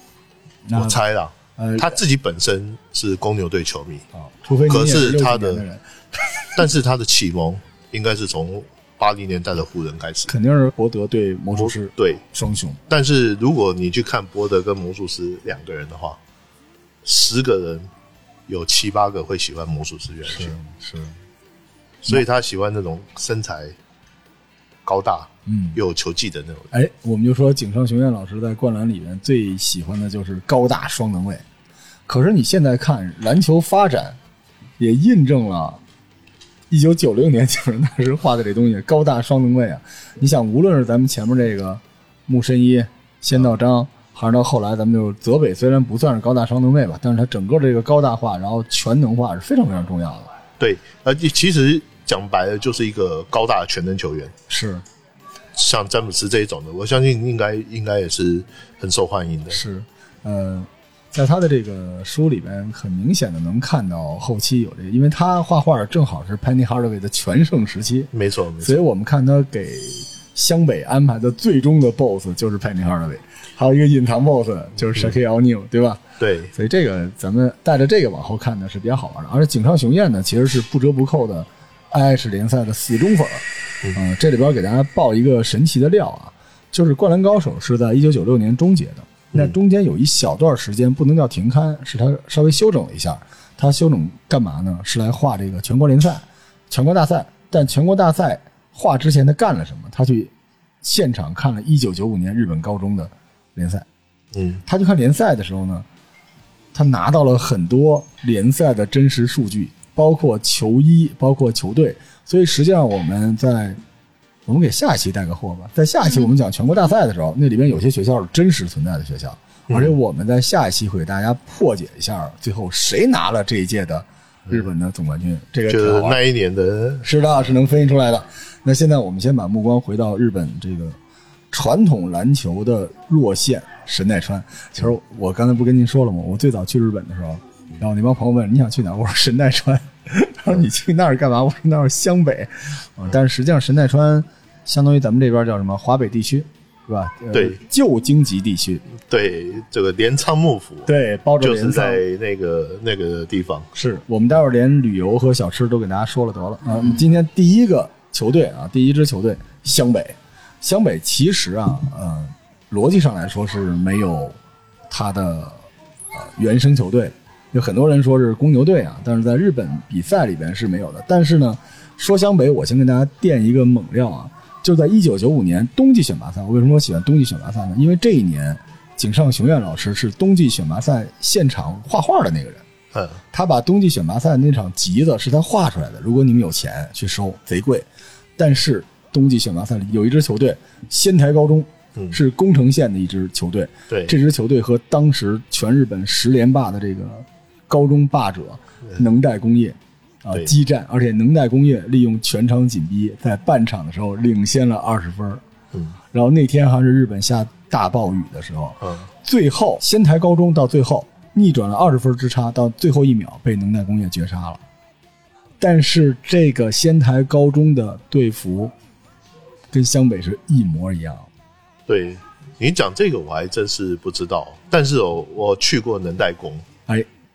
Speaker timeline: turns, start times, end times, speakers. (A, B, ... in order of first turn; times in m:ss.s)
0:00.7-0:01.0 A
0:00.7-0:04.0 B
0:01.6-0:02.0 A
0:04.1-0:06.6 A
0:04.7-0:05.6 B
0:06.6-0:10.3 B
0:10.3-0:12.8 A
0:11.6-0:12.2 B
0:12.9-0:16.2 B
0:17.0-0:17.9 B
0:18.5-0:20.6 B
0:20.3-0:21.2 A
0:22.0-0:23.8 B
0:24.8-0:26.7 B
0:25.5-0:25.8 A
0:26.7-0:31.4 A
0:32.1-0:34.2 A
0:34.8-0:35.8 A
0:36.7-0:50.3 A
0:50.6-0:54.3 B
0:54.5-0:54.8 A
0:55.6-0:59.6 B
0:59.5-1:43.9 A
1:08.1-1:08.8 B
1:16.2-1:16.5 B
1:44.3-1:44.6 B
1:44.7-1:45.9 A
1:46.7-1:53.8 A
1:54.5-2:06.2 A
1:59.7-2:00.0 B
2:05.7-2:07.1 B
2:07.0-2:11.0 A
2:11.5-2:28.8 A
2:27.3-2:27.6 B
2:28.9-2:33.7 B
2:30.9-2:32.0 A
2:33.8-2:44.4 A
2:44.9-3:02.6 A
3:02.9-3:03.2 B
3:03.3-3:25.4 A
3:13.9-3:14.2 B
3:26.1-3:34.6 A
3:28.8-3:29.1 B
3:35.6-3:38.7 A
3:39.7-3:41.3 A
3:41.9-3:46.7 B